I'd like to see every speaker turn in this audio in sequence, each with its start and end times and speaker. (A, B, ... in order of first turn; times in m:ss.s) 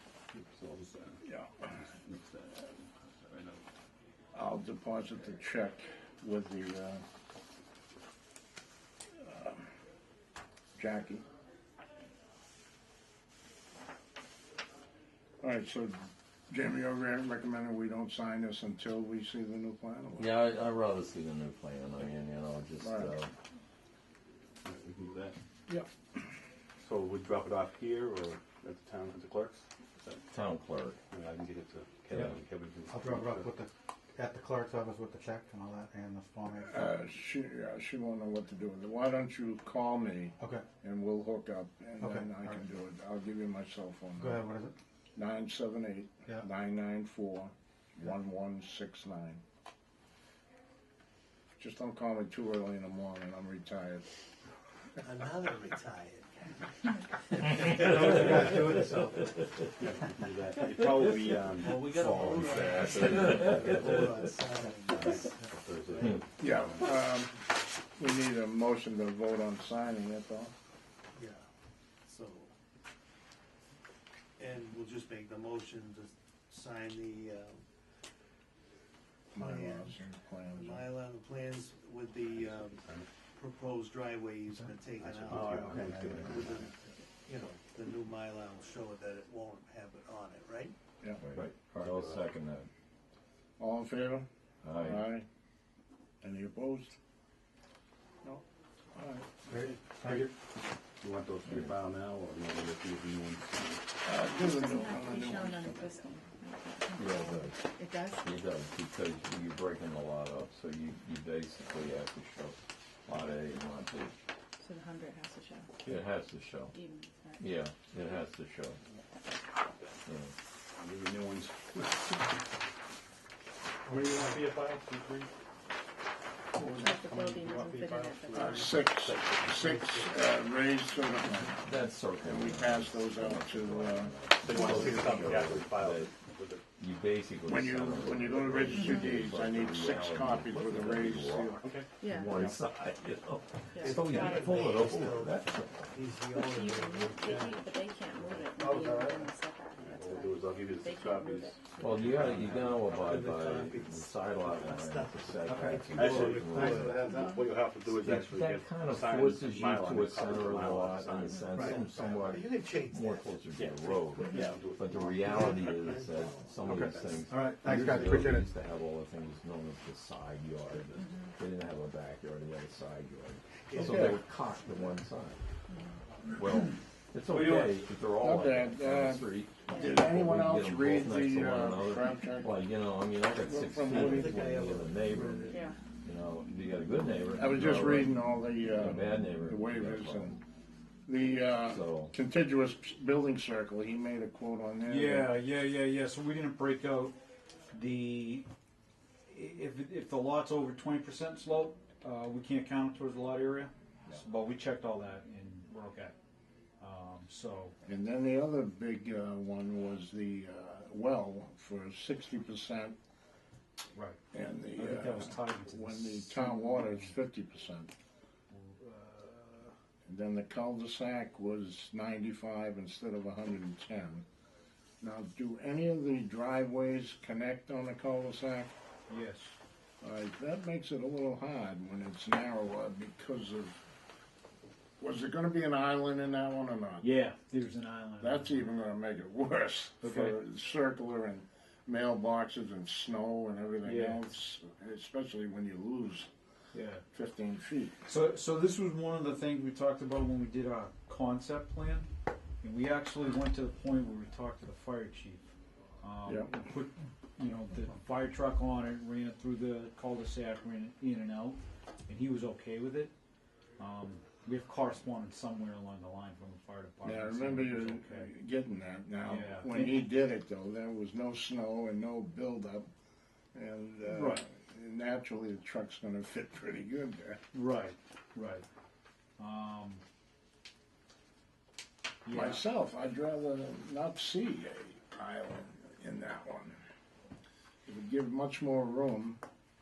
0:00.3-0:03.6 A
0:01.2-0:01.6 B
0:04.3-0:07.0 B
0:09.2-0:09.7 B
0:10.8-0:11.2 B
0:15.4-0:16.0 B
0:16.5-0:20.3 B
0:20.2-0:23.3 C
0:22.8-0:23.1 B
0:24.6-0:25.4 A
0:26.8-0:30.2 A
0:30.3-0:31.0 C
0:31.1-0:33.5 A
0:32.9-0:36.9 D
0:36.6-0:44.4 B
0:40.4-0:40.6 D
0:42.0-0:42.6 D
0:44.1-0:44.7 D
0:45.2-0:49.4 B
0:51.6-0:54.0 B
0:55.0-0:56.6 E
0:57.3-0:58.6 E
0:57.8-0:59.3 D
0:59.8-1:04.2 A
1:01.6-1:06.1 E
1:02.5-1:03.9 C
1:05.0-1:07.0 A
1:06.4-1:07.4 B
1:08.0-1:10.5 B
1:11.1-1:11.4 E
1:12.0-1:12.5 E
1:14.4-1:17.6 E
1:19.3-1:20.0 E
1:19.3-1:20.8 B
1:20.6-1:22.8 E
1:22.3-1:23.1 A
1:23.4-1:30.7 E
1:25.0-1:26.7 A
1:25.2-1:26.5 D
1:31.2-1:32.7 C
1:31.3-1:32.3 A
1:33.6-1:34.2 B
1:34.6-1:35.0 C
1:34.8-1:35.2 B
1:36.2-1:36.9 B
1:38.9-1:39.3 B
1:39.5-1:40.3 D
1:39.7-1:40.3 A
1:41.0-1:43.8 A
1:44.0-1:46.0 B
1:44.2-1:48.3 F
1:47.0-1:47.6 C
1:48.2-1:54.1 C
1:54.6-1:55.7 F
1:55.8-1:56.7 C
1:56.7-1:57.4 F
1:57.4-1:58.8 C
2:00.0-2:00.3 C
2:00.8-2:02.4 A
2:03.9-2:05.3 A
2:03.9-2:04.4 D
2:06.6-2:08.7 F
2:06.7-2:09.6 A
2:08.3-2:11.6 B
2:09.6-2:10.4 E
2:11.5-2:16.2 C
2:12.2-2:14.2 B
2:14.3-2:16.6 A
2:16.8-2:26.0 C
2:17.4-2:22.6 B
2:18.1-2:18.7 A
2:21.6-2:21.9 A
2:22.0-2:22.4 F
2:23.7-2:24.6 F
2:23.8-2:27.8 E
2:26.3-2:32.6 F
2:28.6-2:29.3 D
2:29.8-2:32.9 A
2:31.7-2:37.0 C
2:32.8-2:36.9 E
2:35.4-2:37.4 D
2:35.9-2:41.9 A
2:37.1-2:37.5 F
2:37.8-2:55.4 C
2:41.5-2:43.4 E
2:43.5-2:45.8 A
2:45.2-2:47.3 E
2:46.7-2:48.5 D
2:50.9-2:51.3 F
2:53.6-2:55.0 E
2:53.8-2:54.2 B
2:55.7-2:56.0 F
2:56.3-3:10.4 C
2:57.3-2:57.7 A
2:58.2-3:02.5 B
3:03.4-3:04.4 B
3:03.9-3:05.7 E
3:05.5-3:05.7 F
3:07.4-3:10.4 B
3:11.1-3:15.3 B
3:11.7-3:12.2 C
3:14.8-3:17.1 G
3:17.7-3:18.4 G
3:19.3-3:26.1 G
3:26.8-3:27.7 G
3:27.8-3:32.9 B
3:33.9-3:34.2 G
3:34.3-3:37.9 B
3:34.8-3:37.1 G
3:38.5-3:39.7 G
3:40.0-3:44.2 B
3:45.0-3:48.7 B
3:49.1-3:49.5 G
3:50.0-3:53.8 B
3:55.0-3:57.0 B
3:57.0-3:58.6 G
3:58.2-4:06.3 B
4:00.0-4:00.4 G
4:03.8-4:04.2 G
4:06.7-4:07.0 G
4:07.1-4:08.0 B
4:08.0-4:12.1 G
4:12.6-4:23.1 G
4:23.8-4:28.3 G
4:27.0-4:32.9 B
4:29.2-4:30.0 G
4:33.5-4:37.4 B
4:34.1-4:34.4 G
4:37.5-4:38.6 G
4:39.4-4:40.0 G
4:42.2-4:42.6 G
4:42.3-4:46.8 B
4:47.8-4:49.4 B